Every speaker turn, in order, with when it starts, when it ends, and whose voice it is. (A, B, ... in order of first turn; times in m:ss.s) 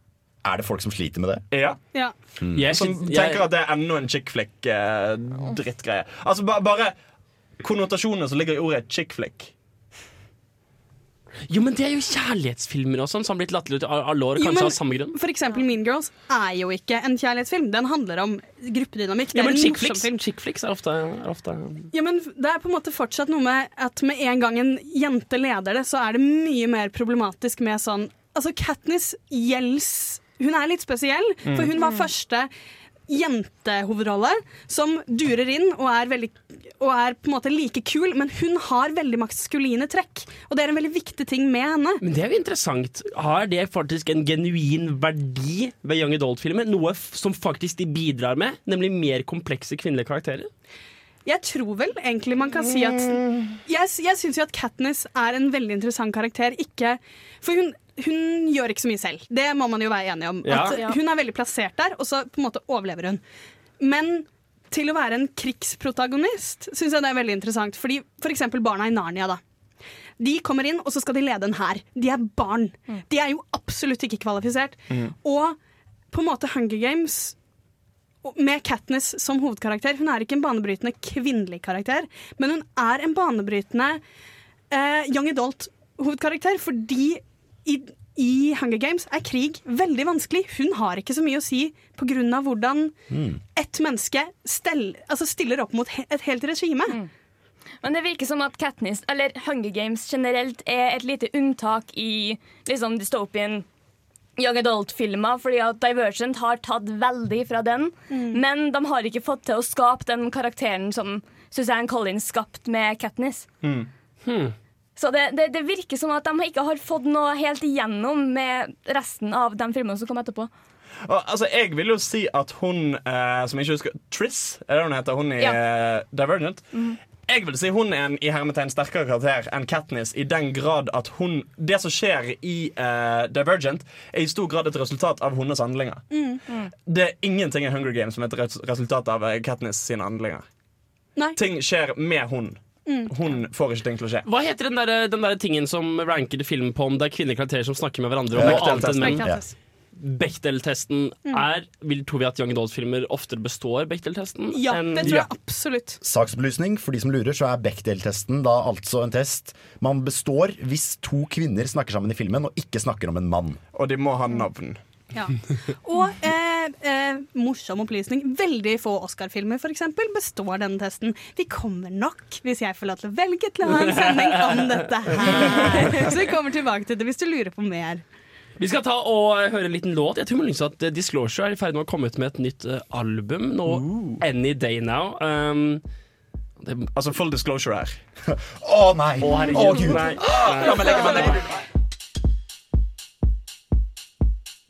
0:00.4-0:01.4 A
0:01.5-0:01.8 B
0:02.5-0:03.4 C
0:02.7-0:06.9 B
0:07.6-0:09.5 B
0:11.5-0:15.2 C
0:14.4-0:20.1 D
0:19.3-0:21.9 C
0:21.9-0:32.5 D
0:33.1-0:42.0 D
0:42.0-0:50.5 C
0:51.2-1:03.2 D
1:00.4-1:00.8 C
1:00.6-1:01.0 E
1:03.8-1:09.4 D
1:10.2-1:15.6 D
1:16.1-1:17.4 D
1:18.2-1:24.0 D
1:24.7-1:32.9 D
1:33.1-1:33.4 A
1:33.5-1:37.0 D
1:37.8-1:43.6 E
1:44.4-1:53.4 E
1:48.1-1:48.4 D
1:53.6-1:53.9 B
1:54.2-1:54.5 C
1:55.0-2:00.5 E
2:01.0-2:16.0 B
2:16.1-2:16.4 D
2:16.9-2:20.4 B
2:21.4-2:24.2 B
2:22.9-2:23.1 D
2:24.2-2:29.2 C
2:28.3-2:29.4 A
2:28.4-2:29.2 B
2:28.4-2:29.5 D
2:30.0-2:35.2 C
2:34.5-2:36.0 D
2:36.0-2:43.6 A
2:43.7-2:44.8 B
2:45.1-2:58.0 D
2:53.7-2:56.0 C
2:58.6-3:05.8 C
3:03.8-3:04.1 A
3:06.6-3:06.9 C
3:06.9-3:08.0 B
3:08.3-3:11.4 A
3:09.2-3:11.1 C
3:09.5-3:11.4 B